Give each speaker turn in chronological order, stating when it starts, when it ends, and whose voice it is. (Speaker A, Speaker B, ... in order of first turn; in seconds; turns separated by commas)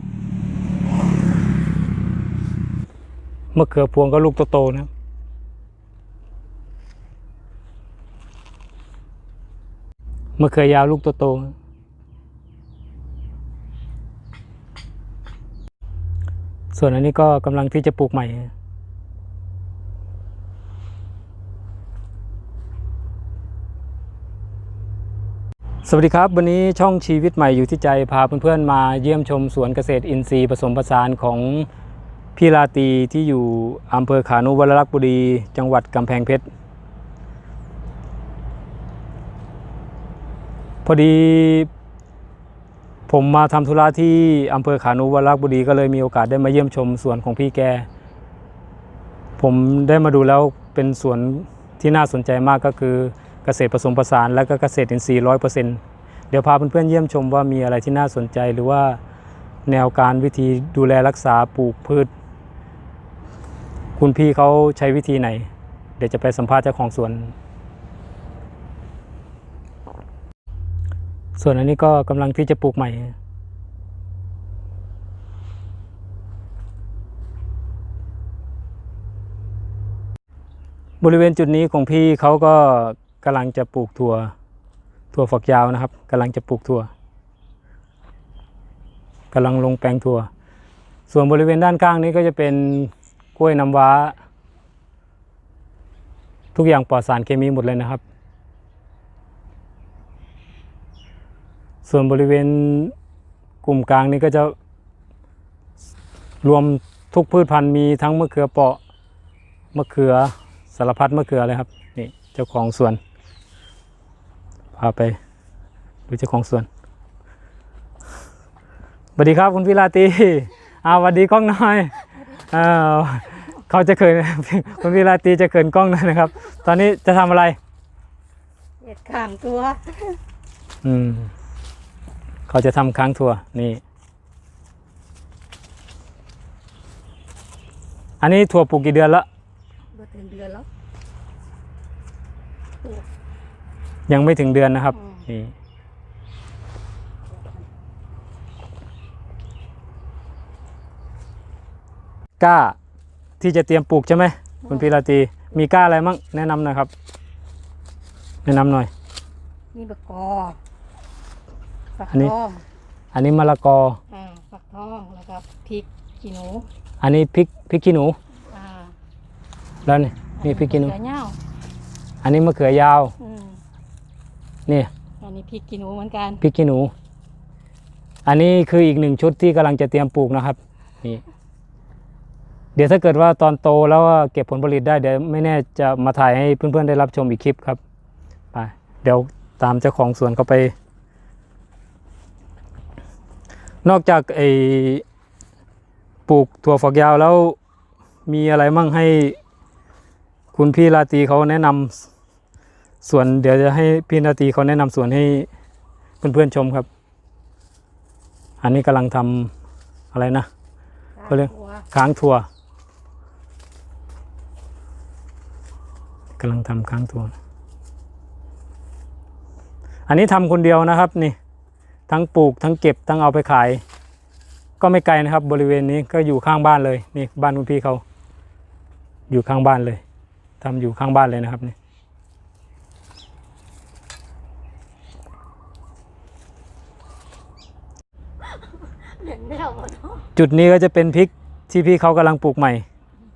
Speaker A: 3.5-4.9, Speaker A: 10.4-11.5, Speaker A: 16.7-18.5, Speaker A: 25.8-31.7, Speaker A: 32.4-36.4, Speaker A: 40.9-41.7, Speaker A: 43.1-47.9, Speaker A: 49.4-55.8, Speaker A: 56.3-59.0, Speaker A: 59.7-62.1, Speaker A: 64.0-67.3, Speaker A: 71.4-73.2, Speaker A: 81.0-84.3, Speaker A: 85.1-86.9, Speaker A: 89.3-90.3, Speaker A: 91.1-94.2, Speaker A: 96.5-98.0, Speaker A: 101.8-102.9, Speaker A: 103.6-104.5, Speaker A: 106.4-108.8, Speaker A: 109.7-113.0, Speaker A: 114.8-115.2, Speaker A: 116.1-116.7, Speaker A: 119.2-127.6, Speaker B: 128.8-130.2, Speaker A: 130.8-131.3, Speaker A: 132.5-133.8, Speaker A: 138.2-139.3, Speaker B: 139.9-140.7, Speaker A: 144.1-145.5, Speaker B: 144.9-145.3, Speaker B: 147.3-147.7, Speaker A: 152.4-152.8, Speaker A: 153.4-156.9, Speaker B: 154.6-154.9, Speaker A: 158.4-158.9, Speaker B: 159.7-160.6, Speaker B: 162.0-162.7, Speaker A: 163.1-164.0, Speaker B: 164.1-166.7, Speaker A: 167.0-168.2, Speaker B: 168.5-168.9, Speaker A: 169.8-170.9, Speaker B: 170.4-171.4, Speaker A: 172.2-173.2, Speaker B: 173.2-173.6, Speaker B: 175.2-176.4, Speaker A: 176.4-176.9, Speaker A: 178.3-181.2, Speaker A: 182.8-187.8, Speaker A: 188.5-190.7, Speaker A: 193.8-195.0, Speaker A: 196.3-197.6, Speaker A: 198.3-199.4, Speaker A: 200.5-202.1, Speaker A: 203.0-205.5, Speaker A: 206.2-206.9, Speaker A: 208.6-209.5, Speaker A: 210.1-210.5, Speaker B: 211.2-211.9, Speaker A: 211.3-212.5, Speaker A: 216.4-217.3, Speaker A: 220.1-221.4, Speaker A: 222.1-223.8, Speaker A: 224.8-228.0, Speaker A: 229.3-230.0, Speaker A: 230.6-231.8, Speaker B: 238.4-240.3, Speaker A: 240.4-242.8